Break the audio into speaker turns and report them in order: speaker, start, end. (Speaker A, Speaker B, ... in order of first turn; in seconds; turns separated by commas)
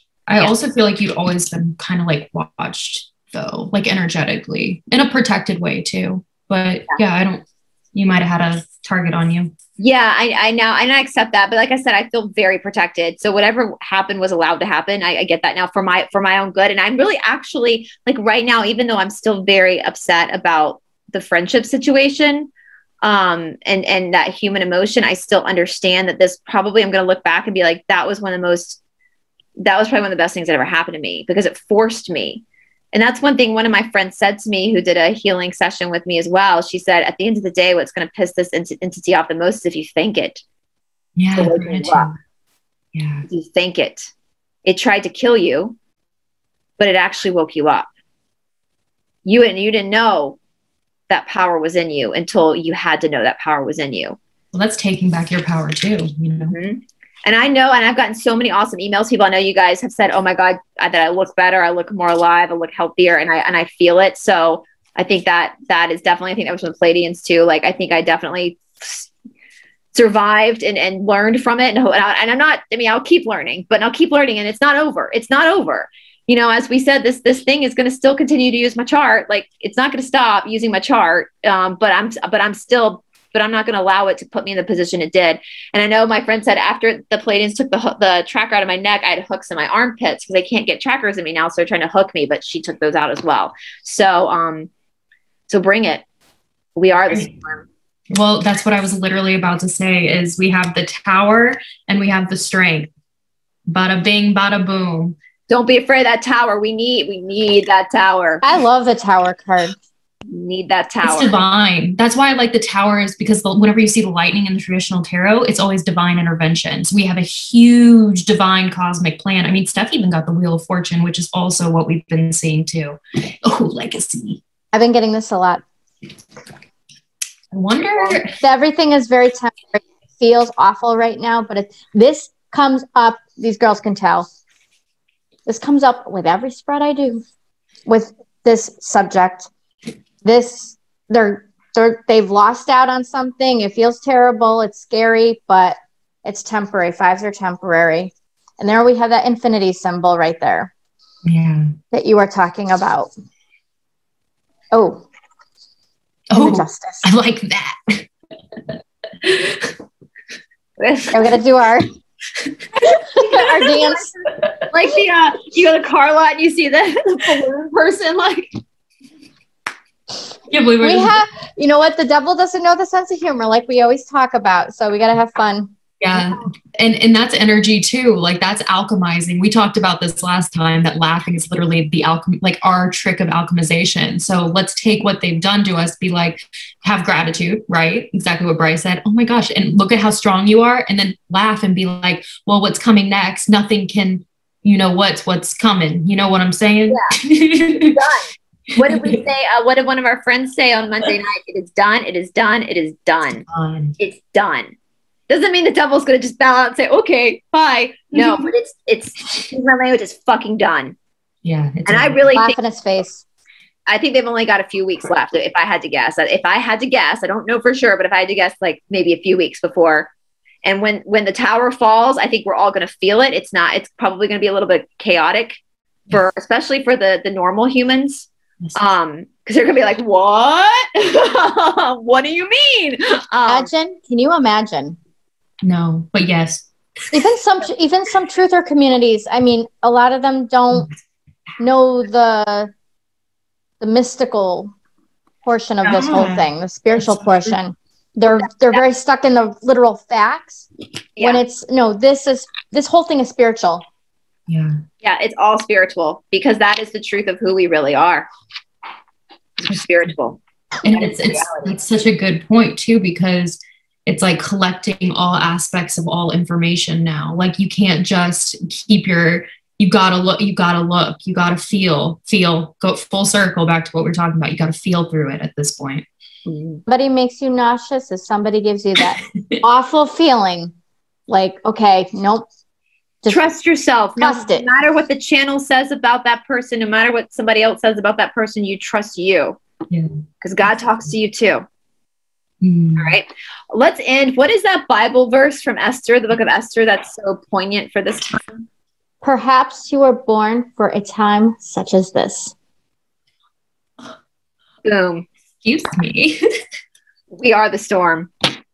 Speaker A: 0.3-9.5, Speaker B: 9.8-22.5, Speaker B: 23.0-28.8, Speaker B: 29.6-40.4, Speaker A: 41.1-42.2, Speaker B: 41.3-42.1, Speaker A: 42.9-43.2, Speaker B: 43.3-44.1, Speaker B: 44.6-45.8, Speaker B: 46.8-47.9, Speaker B: 49.2-50.4, Speaker B: 51.1-54.2, Speaker A: 54.5-56.5, Speaker B: 56.5-69.1, Speaker B: 69.9-94.7, Speaker B: 95.5-96.0, Speaker B: 96.8-97.6, Speaker A: 98.1-102.9, Speaker A: 103.7-105.2, Speaker B: 105.5-108.4, Speaker C: 108.4-109.8, Speaker B: 110.3-111.3, Speaker A: 111.0-124.4, Speaker C: 124.7-125.6, Speaker A: 127.5-128.3, Speaker C: 128.3-134.3, Speaker C: 135.4-137.2, Speaker C: 137.8-139.5, Speaker C: 140.2-150.7, Speaker A: 151.2-151.7, Speaker C: 151.9-153.1, Speaker C: 154.7-155.0, Speaker A: 156.3-158.1, Speaker C: 156.3-157.1, Speaker A: 159.2-159.7, Speaker B: 160.8-161.3, Speaker C: 161.1-161.9, Speaker C: 162.8-164.1, Speaker B: 163.2-164.1, Speaker A: 164.4-164.7, Speaker B: 164.7-168.5, Speaker A: 170.5-171.2, Speaker C: 170.8-175.7, Speaker A: 176.0-198.0, Speaker B: 196.9-197.1, Speaker B: 197.9-203.4, Speaker A: 198.7-199.2, Speaker A: 203.5-203.9, Speaker B: 204.0-204.7, Speaker B: 205.3-210.9, Speaker A: 208.1-208.5, Speaker A: 211.4-212.2, Speaker B: 211.8-212.6, Speaker C: 212.3-213.2, Speaker B: 213.9-220.1, Speaker B: 220.6-225.6, Speaker B: 226.1-233.7, Speaker C: 233.4-235.0, Speaker A: 235.6-237.1, Speaker C: 237.1-240.9, Speaker C: 241.6-242.7, Speaker C: 243.8-244.7, Speaker C: 245.4-250.7, Speaker A: 245.8-246.4, Speaker A: 247.0-247.4, Speaker C: 251.2-253.8, Speaker A: 254.5-254.8, Speaker B: 255.0-258.3, Speaker B: 259.6-261.8, Speaker A: 259.6-260.1, Speaker A: 260.8-276.0, Speaker B: 276.4-276.8, Speaker C: 276.9-280.7, Speaker A: 279.0-279.6, Speaker C: 281.3-282.4, Speaker B: 283.3-289.6, Speaker C: 284.2-284.7, Speaker B: 290.4-291.6, Speaker A: 292.6-293.2, Speaker B: 293.0-298.6, Speaker C: 299.2-302.5, Speaker B: 304.8-305.2, Speaker A: 305.6-306.4, Speaker B: 307.3-308.3